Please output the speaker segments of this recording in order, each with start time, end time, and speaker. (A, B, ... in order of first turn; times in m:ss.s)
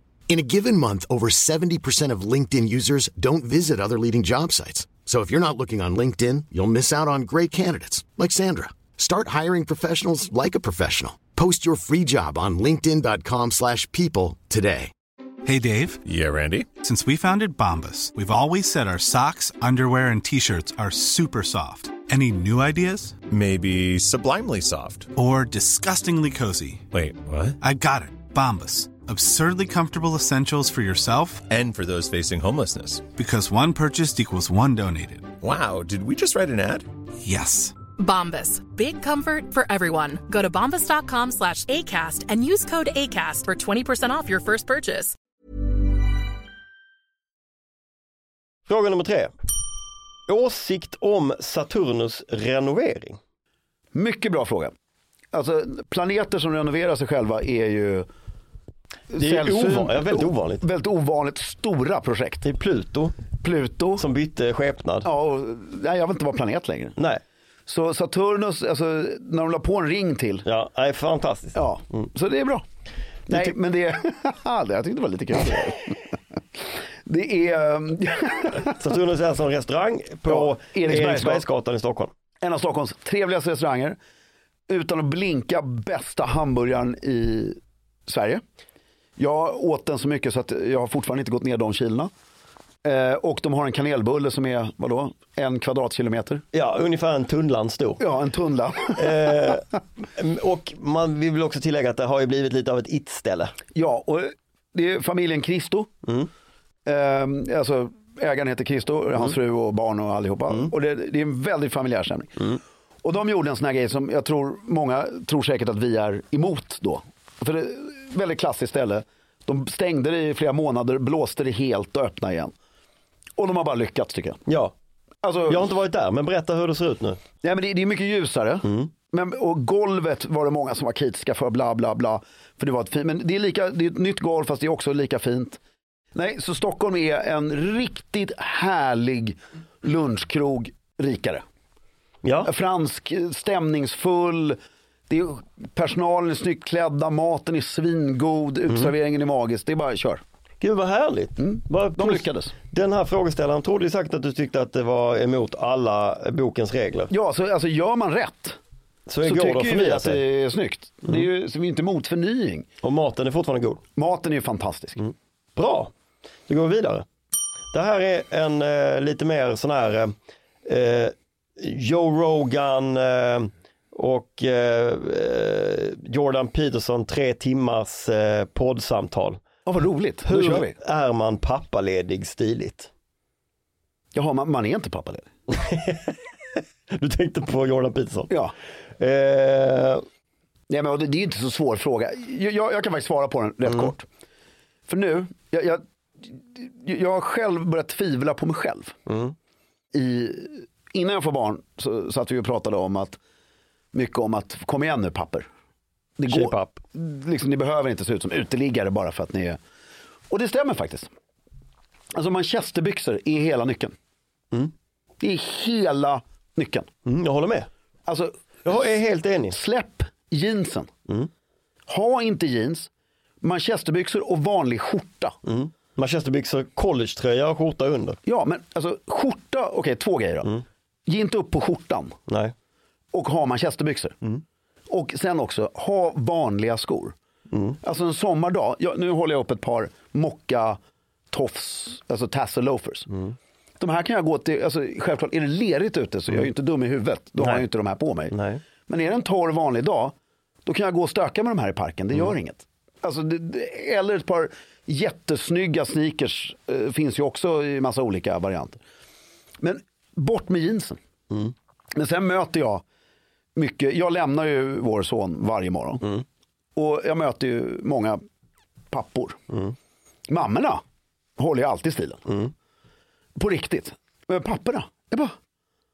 0:00.3-0:14.9 A
0:15.4-0:16.1 B
0:16.0-0:16.7 C
0:16.8-0:23.2 B
0:23.2-0:25.1 C
0:25.1-0:26.9 B
0:26.9-0:27.6 C
0:27.6-0:31.5 B
0:31.5-0:33.1 C
0:33.1-0:35.3 B
0:35.4-0:36.9 C
0:37.2-0:37.8 B
0:38.0-0:45.1 D
0:48.7-0:49.3 E
0:50.3-0:53.2 E
0:53.9-0:54.7 F
0:55.3-0:58.1 F
0:59.1-1:02.4 F
0:59.2-1:00.6 E
1:02.4-1:03.1 E
1:03.4-1:04.0 F
1:04.0-1:05.1 E
1:05.0-1:07.0 F
1:07.7-1:10.4 F
1:10.4-1:12.1 E
1:11.5-1:12.6 F
1:13.3-1:16.2 F
1:17.0-1:18.7 F
1:18.5-1:22.1 E
1:20.2-1:21.4 F
1:22.4-1:24.0 F
1:24.7-1:28.4 F
1:29.2-1:32.1 F
1:32.8-1:36.4 F
1:36.5-1:38.0 E
1:38.0-1:39.6 F
1:39.0-1:43.6 E
1:43.7-1:45.9 F
1:46.0-1:46.3 E
1:46.8-2:02.5 F
2:03.4-2:04.4 F
2:04.4-2:04.7 E
2:05.2-2:05.7 F
2:05.5-2:07.2 E
2:07.4-2:15.6 F
2:08.6-2:08.9 E
2:16.1-2:21.4 F
2:22.2-2:22.5 E
2:22.4-2:24.6 F
2:25.1-2:30.2 F
2:30.6-2:37.1 E
2:31.4-2:32.5 F
2:37.1-2:38.6 F
2:39.1-2:40.2 E
2:39.2-2:42.7 F
2:42.8-2:43.8 E
2:44.0-2:45.0 F
2:45.0-2:45.9 E
2:46.5-2:47.0 E
2:47.7-2:50.1 E
2:50.6-2:59.4 E
2:59.6-3:00.7 F
3:00.2-3:02.9 E
3:04.1-3:05.3 F
3:05.5-3:08.3 E
3:08.3-3:08.5 F
3:09.0-3:10.0 E
3:10.7-3:14.0 F
3:14.9-3:18.9 F
3:19.1-3:19.3 E
3:19.9-3:23.2 F
3:23.9-3:25.5 F
3:26.2-3:29.6 F
3:26.3-3:26.8 E
3:30.3-3:31.1 F
3:32.1-3:33.9 F
3:35.2-3:36.9 F
3:37.0-3:37.7 E
3:38.1-3:38.9 F
3:38.6-3:39.6 E
3:39.5-3:40.9 F
3:41.9-3:42.9 F
3:43.4-3:45.3 F
3:45.4-3:48.2 E
3:48.2-3:50.5 F
3:51.1-3:52.1 F
3:52.3-3:52.5 E
3:53.1-3:54.1 F
3:54.9-3:57.1 F
3:57.5-3:57.8 E
3:57.8-4:00.8 F
4:01.3-4:03.1 F
4:03.8-4:08.3 F
4:07.4-4:07.6 E
4:08.3-4:08.6 E
4:08.9-4:10.1 F
4:10.6-4:18.8 F
4:19.6-4:21.0 F
4:21.9-4:22.8 F
4:23.6-4:26.1 F
4:26.8-4:28.2 F
4:28.9-4:29.4 F
4:30.3-4:30.8 F
4:31.4-4:32.2 F
4:33.4-4:35.4 F